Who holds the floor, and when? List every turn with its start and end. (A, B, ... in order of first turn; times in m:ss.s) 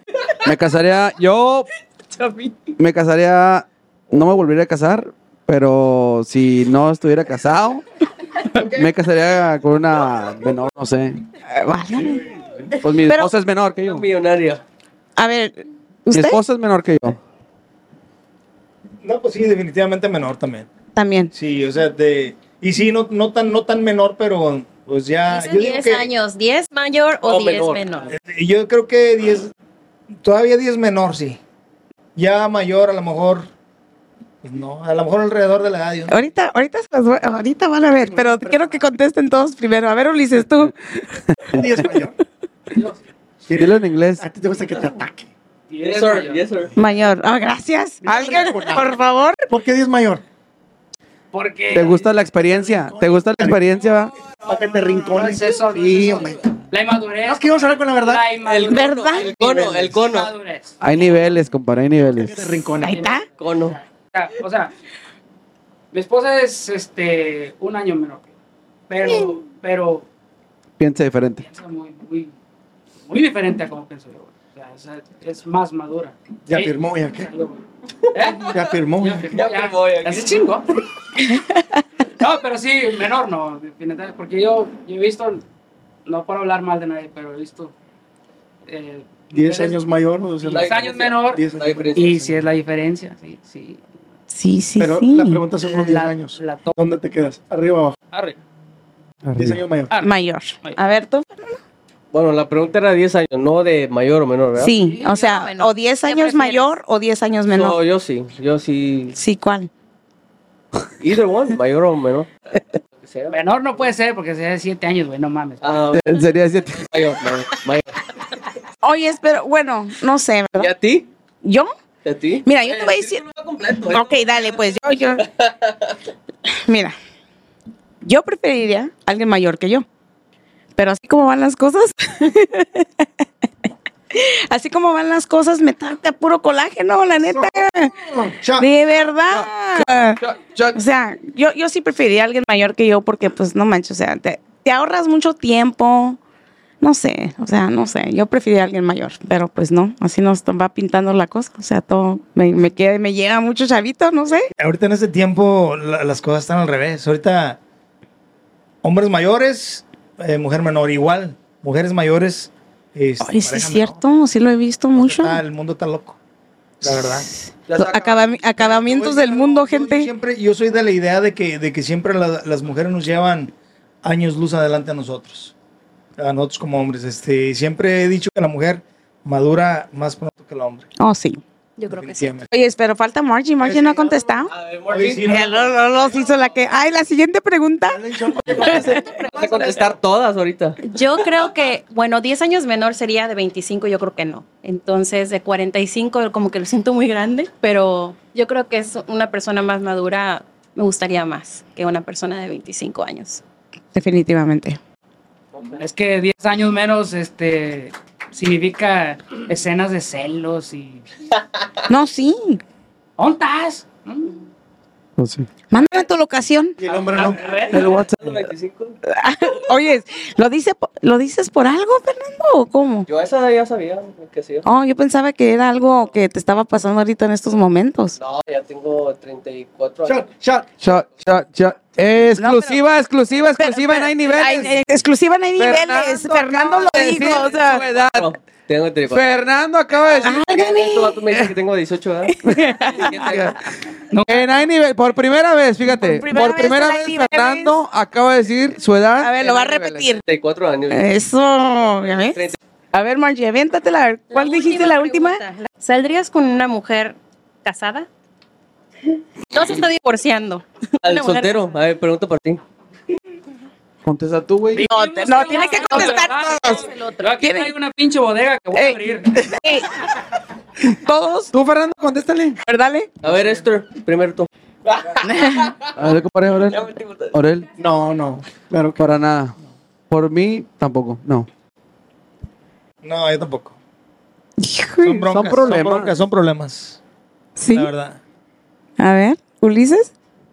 0:00.4-0:01.7 A
0:02.1-0:02.6 B
0:02.8-0:07.8 A
0:08.5-0:11.2 A
0:11.5-0:12.2 C
0:12.0-0:12.2 D
0:12.8-0:14.0 A
0:13.1-0:13.3 C
0:13.8-0:14.6 E
0:15.2-0:16.4 C
0:16.1-0:17.2 A
0:19.0-0:20.7 F
0:20.9-0:21.3 C
0:21.3-0:26.1 F
0:25.3-0:28.1 B
0:27.2-0:28.1 E
0:28.1-0:29.5 F
0:30.2-0:31.4 F
0:32.2-0:33.5 F
0:34.4-0:36.1 F
0:36.1-0:40.7 C
0:38.0-0:38.9 D
0:41.3-0:41.7 A
0:41.5-0:42.1 D
0:42.7-0:43.0 G
0:43.5-0:45.3 D
0:43.5-0:44.2 A
0:45.7-0:46.5 G
0:45.8-0:46.7 E
0:46.8-0:49.4 C
0:48.0-0:48.9 D
0:49.5-0:50.2 D
0:51.3-0:52.1 G
0:51.7-0:54.1 A
0:52.4-0:53.6 D
0:54.4-0:56.5 D
0:55.1-1:00.8 G
0:57.2-0:58.3 D
0:58.4-1:00.3 E
0:58.7-0:59.4 C
0:59.4-0:59.9 D
1:00.8-1:02.6 A
1:02.1-1:03.1 D
1:02.8-1:03.2 C
1:02.8-1:04.7 G
1:03.3-1:03.8 E
1:05.9-1:08.3 G
1:08.9-1:10.0 G
1:10.8-1:11.4 A
1:11.4-1:12.3 G
1:13.1-1:17.6 G
1:16.4-1:17.3 D
1:18.1-1:20.7 G
1:18.1-1:18.7 E
1:18.5-1:19.3 D
1:19.3-1:20.6 E
1:22.2-1:25.4 G
1:26.0-1:27.7 G
1:28.6-1:29.8 G
1:29.3-1:30.7 D
1:30.4-1:31.4 G
1:30.5-1:32.4 E
1:31.2-1:31.9 D
1:32.0-1:33.8 G
1:34.3-1:35.4 C
1:34.8-1:38.0 D
1:35.6-1:36.9 G
1:38.1-1:38.4 G
1:39.2-1:39.6 A
1:39.3-1:39.9 D
1:39.9-1:40.8 G
1:40.0-1:41.6 C
1:42.1-1:44.7 E
1:44.6-1:47.8 C
1:44.9-1:46.7 B
1:47.5-1:49.2 E
1:49.1-1:49.7 C
1:51.0-1:53.8 E
1:53.3-1:55.8 G
1:55.6-1:56.1 E
1:55.9-1:56.9 A
1:56.7-1:57.9 E
1:58.8-2:00.7 C
2:00.6-2:01.1 E
2:01.4-2:01.7 C
2:02.0-2:06.0 E
2:02.4-2:03.2 C
2:03.8-2:05.3 C
2:06.5-2:06.9 C
2:08.0-2:09.8 C
2:10.8-2:13.0 C
2:14.1-2:18.0 C
2:17.2-2:18.7 D
2:18.6-2:20.2 C
2:19.3-2:20.8 A
2:20.7-2:26.2 C
2:26.8-2:34.5 C
2:34.6-2:37.6 F
2:38.8-2:44.0 F
2:43.2-2:45.4 C
2:44.9-2:46.2 F
2:46.8-2:47.3 F
2:46.8-2:50.1 C
2:47.7-2:48.5 A
2:48.6-2:55.5 F
2:56.2-3:00.9 F
3:01.0-3:01.4 C
3:01.8-3:02.3 B
3:01.9-3:02.5 F
3:02.5-3:04.5 C
3:03.6-3:04.1 F
3:04.4-3:06.6 E
3:04.9-3:05.6 F
3:05.2-3:09.2 C
3:07.9-3:09.8 D
3:08.5-3:10.8 E
3:10.8-3:23.4 B
3:23.9-3:24.8 C
3:25.5-3:25.8 E
3:25.8-3:31.0 G
3:31.9-3:32.6 C
3:33.2-3:34.5 G
3:35.2-3:35.5 A
3:35.7-3:36.8 C
3:36.8-3:37.5 D
3:36.9-3:39.0 E
3:37.1-3:37.9 G
3:37.7-3:38.5 A
3:39.1-3:43.1 C
3:43.1-3:44.7 E
3:44.6-3:48.2 C
3:48.2-3:50.3 E
3:50.0-3:50.7 D
3:50.8-3:54.8 A
3:52.4-3:52.8 G
3:53.6-3:57.8 C
3:55.6-3:58.3 A
3:57.6-3:59.2 E
3:59.1-4:00.4 A
4:00.2-4:01.3 C
4:00.4-4:03.6 E
4:02.3-4:03.3 C
4:02.4-4:03.6 A
4:04.1-4:04.5 G
4:04.1-4:10.2 A
4:05.9-4:07.8 C
4:09.2-4:10.2 C
4:10.3-4:11.1 E
4:10.9-4:15.4 C
4:12.2-4:12.6 E
4:14.3-4:18.1 B
4:19.5-4:21.6 B
4:21.0-4:22.6 E
4:24.0-4:24.9 A
4:24.7-4:29.6 G
4:24.8-4:26.9 C
4:25.3-4:27.3 B
4:27.4-4:27.7 C
4:28.7-4:30.0 C
4:30.8-4:31.5 C
4:31.5-4:32.6 A
4:32.6-4:33.1 C
4:33.2-4:36.1 E
4:35.3-4:35.7 C
4:36.0-4:37.7 A
4:36.6-4:37.4 E
4:37.8-4:39.1 D
4:39.0-4:39.6 A
4:40.1-4:41.5 A
4:43.0-4:43.8 F
4:44.6-4:45.3 C
4:45.0-4:47.0 F
4:45.3-4:46.1 A
4:47.6-4:47.9 C
4:47.7-4:48.2 F
4:49.0-4:50.1 C